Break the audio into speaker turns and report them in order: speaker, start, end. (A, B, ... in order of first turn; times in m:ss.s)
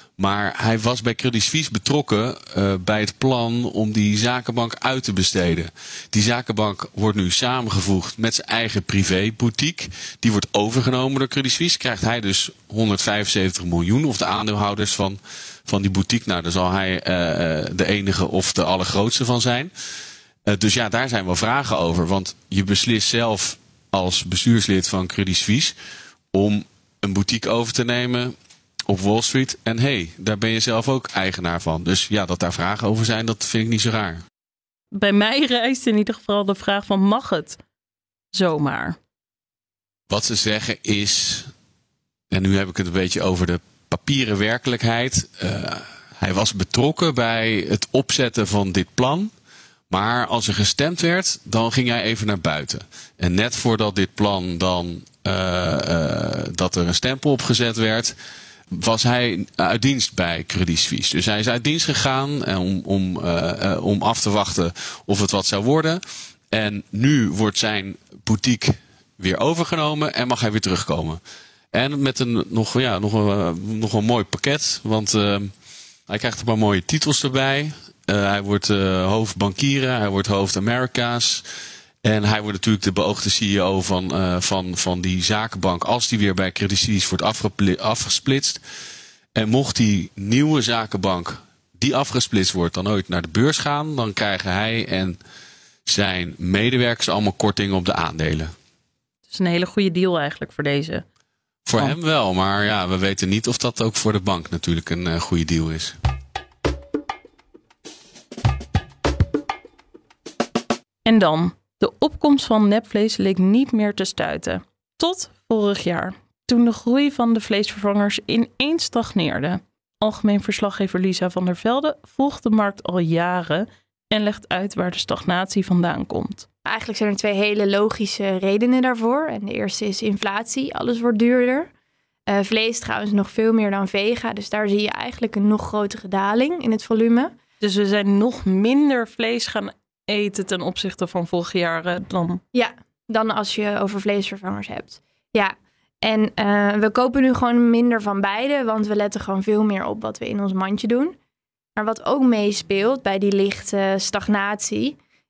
0:00.2-0:19.7 A
0:20.4-0:25.7 A
0:26.3-0:28.3 A
0:28.9-0:34.2 A
0:34.9-0:37.6 B
0:38.3-0:39.0 B
0:40.1-0:41.5 A
0:42.3-0:49.3 A
0:49.9-0:58.1 A
0:58.7-1:06.0 A
1:06.5-1:11.2 A
1:11.7-1:15.5 A
1:16.1-1:21.4 A
1:22.0-1:28.6 A
1:29.3-1:35.2 A
1:35.9-1:38.5 A
1:39.3-1:41.0 B
1:41.6-1:46.0 A
1:51.0-2:06.4 B
2:06.6-2:11.7 C
2:12.3-2:17.3 C
2:17.6-2:22.4 B
2:22.5-2:31.1 C
2:31.8-2:35.0 C